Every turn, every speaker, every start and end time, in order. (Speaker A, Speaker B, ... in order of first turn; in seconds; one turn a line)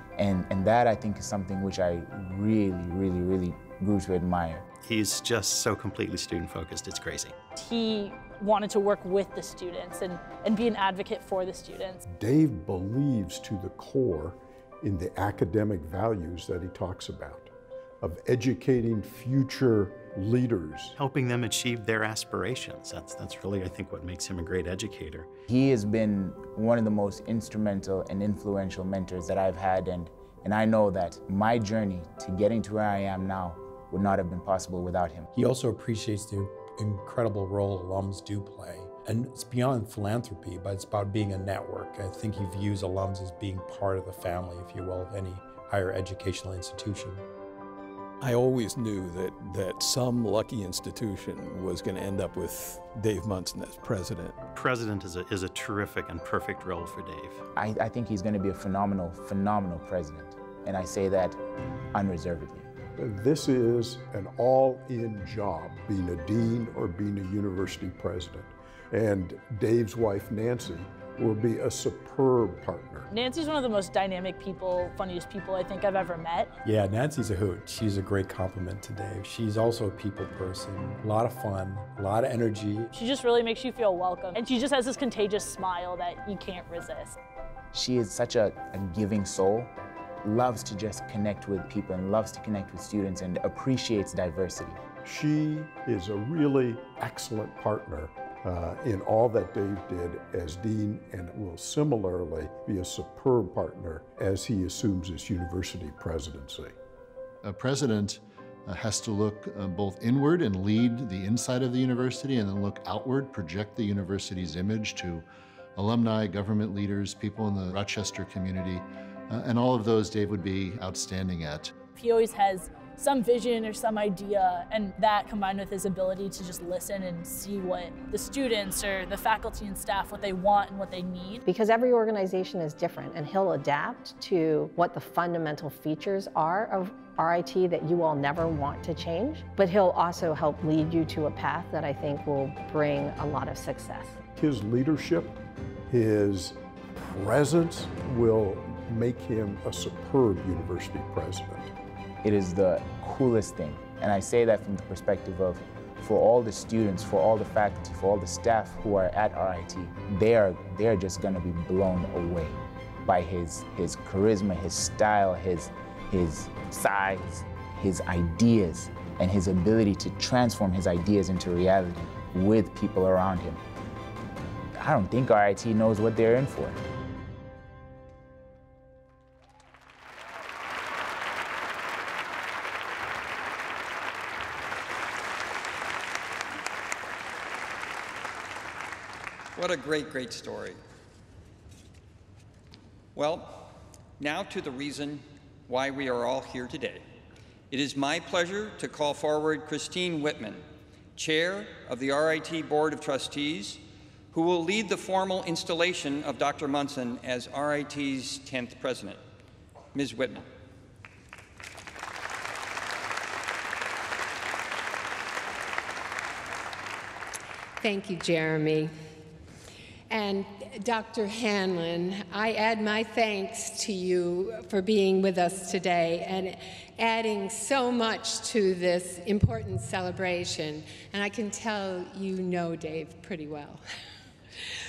Speaker A: 0.2-4.6
Speaker B: 4.8-7.4
Speaker C: 7.5-12.0
Speaker D: 12.1-20.9
Speaker B: 20.9-25.3
Speaker A: 25.5-35.3
Speaker E: 35.3-47.2
Speaker F: 48.2-54.4
Speaker B: 54.5-57.4
Speaker A: 57.5-61.4
Speaker A: 61.9-62.7
Speaker D: 62.9-73.1
Speaker C: 73.1-76.5
Speaker E: 76.6-82.9
Speaker C: 82.9-87.2
Speaker A: 87.7-89.7
Speaker A: 90.2-94.8
Speaker D: 95.0-106.7
Speaker G: 107.4-121.7
Speaker C: 121.9-131.4
Speaker H: 131.4-144.2
Speaker D: 144.3-151.7
Speaker A: 152.2-173.6
Speaker A: 174.8-176.8
Speaker I: 189.6-190.8
Speaker I: 193.2-197.0
Speaker I: 197.7-200.6
Speaker I: 201.2-209.2
Speaker I: 209.9-210.4
Speaker J: 217.8-218.9
Speaker J: 220.1-233.8